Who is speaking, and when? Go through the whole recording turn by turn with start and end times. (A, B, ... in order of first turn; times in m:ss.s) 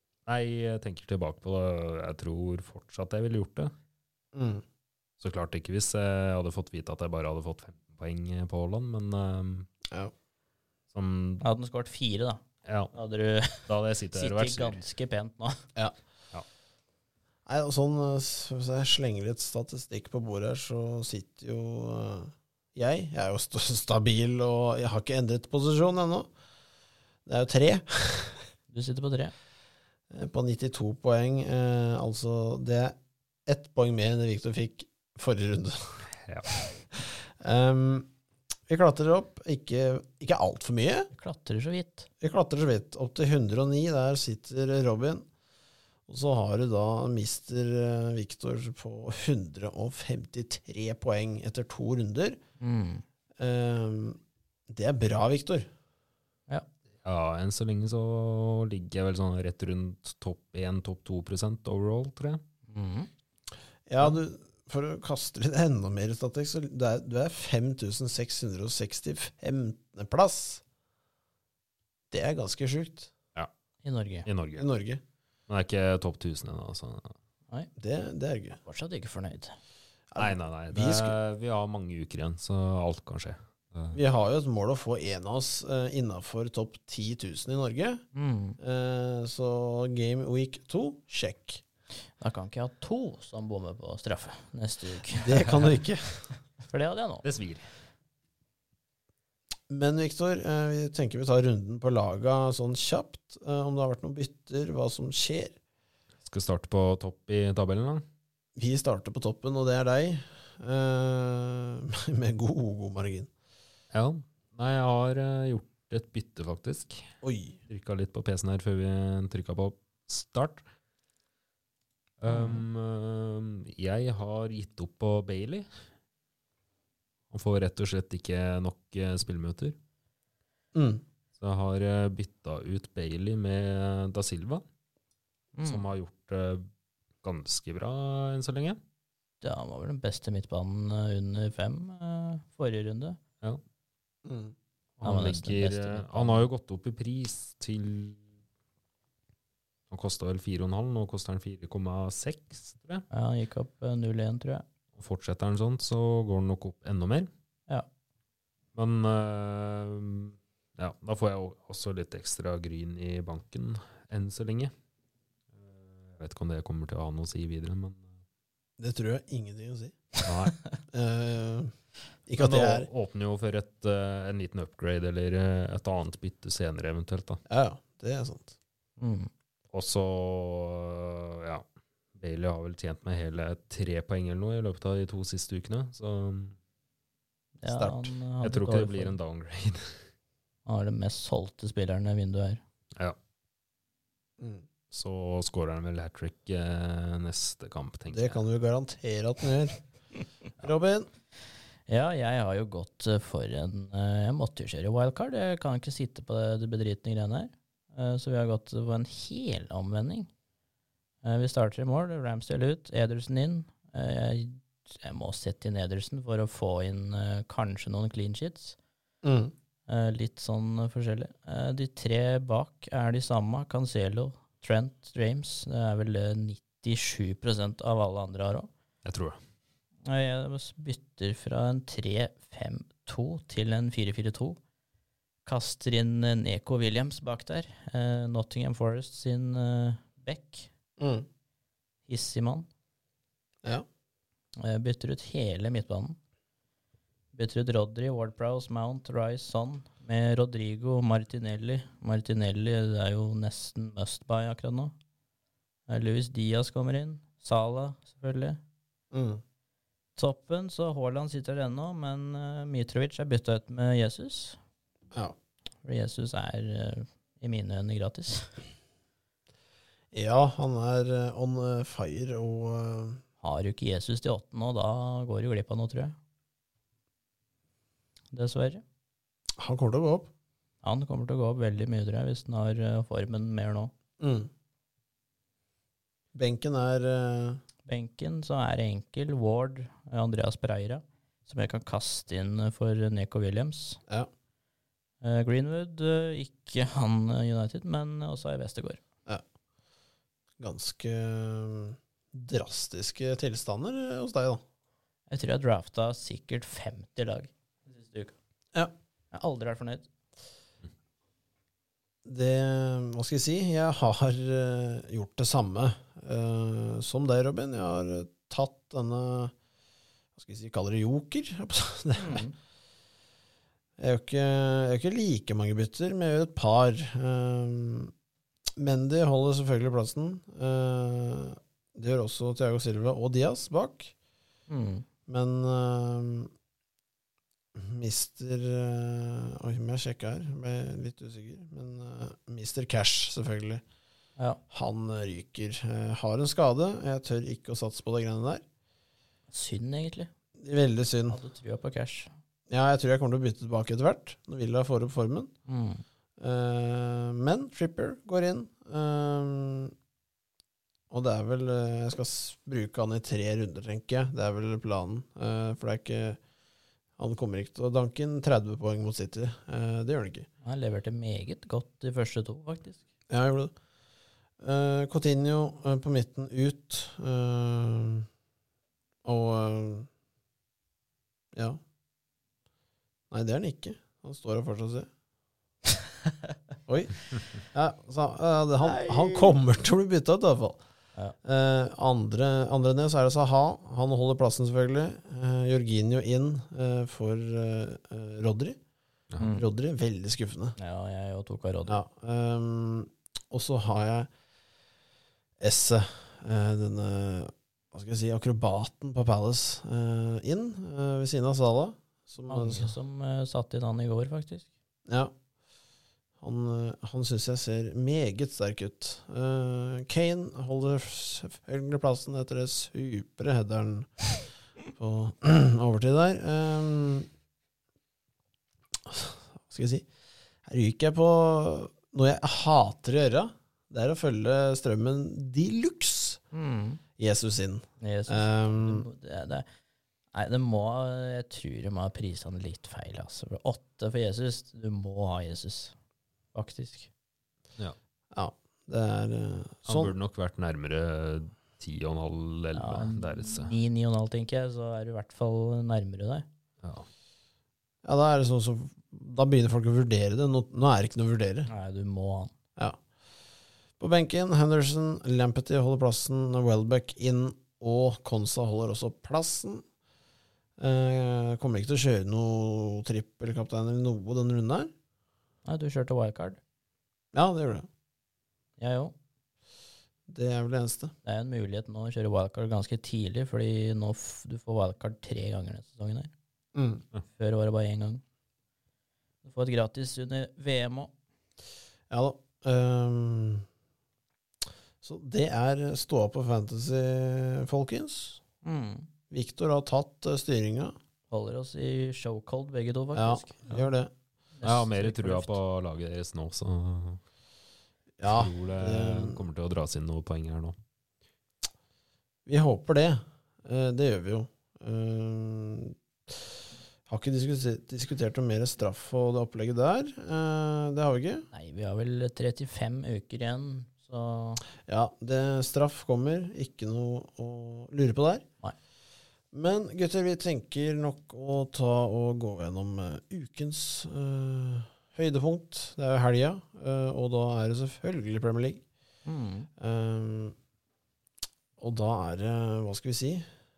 0:00.3-0:03.7 A
0:04.3-0:04.6 B
0:05.2-0:09.7 A
0:10.9-0:11.4 A
0:11.4-0:12.4 C
0:12.6-0:12.9 A
0:12.9-0:15.6 C
0:13.7-0:14.8 A
0:17.4-0:26.3 B
0:27.2-0:28.4 B
0:28.7-0:29.3 C
0:30.1-0:38.1 B
0:36.2-0:36.5 A
0:38.7-0:41.1 B
0:41.1-0:42.1 C
0:42.2-0:45.2 B
0:46.1-0:52.4 B
0:52.6-0:53.0 C
0:53.4-0:55.7 B
0:57.0-1:02.4 A
1:02.7-1:03.1 C
1:03.9-1:10.6 B
1:12.1-1:13.1 B
1:13.8-1:14.3 C
1:14.2-1:14.7 A
1:14.6-1:15.0 B
1:15.5-1:17.1 A
1:17.8-1:18.6 B
1:18.6-1:19.5 C
1:20.1-1:21.1 B
1:20.2-1:24.0 A
1:23.9-1:28.0 B
1:28.1-1:28.6 C
1:28.6-1:31.6 B
1:32.2-1:35.7 C
1:35.2-1:36.2 B
1:36.6-1:37.2 C
1:37.2-1:37.7 A
1:39.7-1:45.6 B
1:46.2-1:48.0 A
1:48.6-1:53.3 B
1:53.9-1:57.1 A
1:57.2-1:57.6 B
1:57.7-2:00.6 A
2:02.2-2:05.7 A
2:02.3-2:02.6 C
2:07.3-2:09.8 A
2:10.7-2:11.0 B
2:11.4-2:14.6 A
2:15.5-2:15.8 C
2:15.6-2:16.7 A
2:17.2-2:18.8 A
2:19.4-2:23.2 C
2:24.2-2:24.5 B
2:25.0-2:28.2 A
2:25.0-2:26.5 C
2:29.9-2:33.0 A
2:33.1-2:34.6 C
2:35.0-2:37.3 A
2:38.7-2:44.7 A
2:45.6-2:48.0 A
2:48.8-2:50.2 B
2:50.2-2:50.6 A
2:50.9-2:51.7 B
2:52.3-2:52.9 B
2:52.4-2:57.4 A
2:57.5-2:58.5 B
2:59.0-2:59.3 C
2:59.7-3:01.6 A
3:02.2-3:06.6 A
3:07.6-3:09.2 C
3:07.7-3:08.1 B
3:08.4-3:10.0 A
3:10.6-3:12.6 C
3:14.4-3:14.6 B
3:14.9-3:18.4 A
3:18.1-3:19.8 B
3:20.6-3:21.1 B
3:21.9-3:30.3 C
3:31.2-3:38.8 C
3:39.2-3:39.5 B
3:39.9-3:48.7 C
3:49.0-3:49.4 A
3:50.0-3:54.6 C
3:55.4-4:00.7 C
4:01.0-4:01.3 B
4:02.0-4:02.7 C
4:04.6-4:06.2 C
4:07.3-4:14.9 C
4:15.9-4:18.6 C
4:19.1-4:19.4 B
4:20.2-4:24.6 C
4:25.8-4:28.6 C
4:30.1-4:33.2 B
4:33.4-4:36.2 C
4:38.3-4:38.8 C
4:39.6-4:40.3 B
4:40.8-4:43.9 C
4:44.2-4:44.5 B
4:46.3-4:47.6 B
4:47.8-4:54.0 C
4:55.2-4:59.0 C
5:00.6-5:04.6 B
5:05.3-5:08.3 C
5:09.3-5:10.1 C
5:12.2-5:19.5 B
5:20.4-5:22.4 B
5:22.2-5:22.5 C
5:24.0-5:28.1 B
5:28.8-5:34.1 B
5:34.7-5:35.0 C
5:35.3-5:36.5 B
5:37.7-5:43.8 B
5:44.7-5:48.6 B
5:49.5-5:50.3 C
5:50.6-5:51.4 B
5:51.3-5:52.3 C
5:52.7-5:55.5 B
5:55.7-5:56.0 C
5:56.4-5:59.9 B
6:01.1-6:06.4 B
6:07.2-6:10.5 B
6:10.6-6:13.0 C
6:13.3-6:13.7 B
6:14.6-6:18.3 B
6:19.2-6:20.1 B
6:21.5-6:21.8 B
6:23.3-6:25.1 B
6:26.9-6:30.8 B
6:28.9-6:29.5 C
6:31.4-6:38.8 B
6:39.4-6:39.6 C
6:39.5-6:40.8 B
6:40.8-6:42.0 C
6:41.9-6:44.3 B
6:45.6-6:52.9 B
6:52.5-6:54.7 C
6:55.1-6:55.3 B
6:56.4-7:04.3 B
7:04.9-7:07.3 B
7:09.0-7:10.1 B
7:10.6-7:16.4 B
7:16.5-7:17.0 C
7:17.2-7:19.0 B
7:18.0-7:19.6 C
7:20.3-7:25.9 C
7:26.5-7:27.1 C
7:28.3-7:30.1 B
7:29.9-7:33.8 A
7:32.7-7:36.4 C
7:36.8-7:37.1 A
7:38.0-7:41.7 B
7:41.7-7:42.5 C
7:44.0-7:49.8 B
7:50.8-7:54.9 B
7:55.6-7:56.6 C
7:57.3-7:57.9 B
7:58.8-7:59.1 C
8:00.3-8:01.1 B
8:01.2-8:06.3 C
8:06.7-8:07.0 B
8:07.3-8:08.2 C
8:09.4-8:11.1 C
8:12.1-8:13.6 B
8:15.0-8:18.4 B
8:18.6-8:19.1 C
8:19.3-8:20.9 B
8:21.3-8:23.9 C
8:23.1-8:24.1 B
8:24.6-8:25.5 C
8:24.6-8:27.2 A
8:28.2-8:29.4 B
8:28.2-8:30.8 A
8:32.4-8:36.5 B
8:37.1-8:41.5 B
8:41.5-8:44.6 C
8:44.8-8:48.4 B
8:49.5-8:58.8 B
8:59.2-8:59.7 C
8:59.8-9:00.6 B
9:01.8-9:03.5 B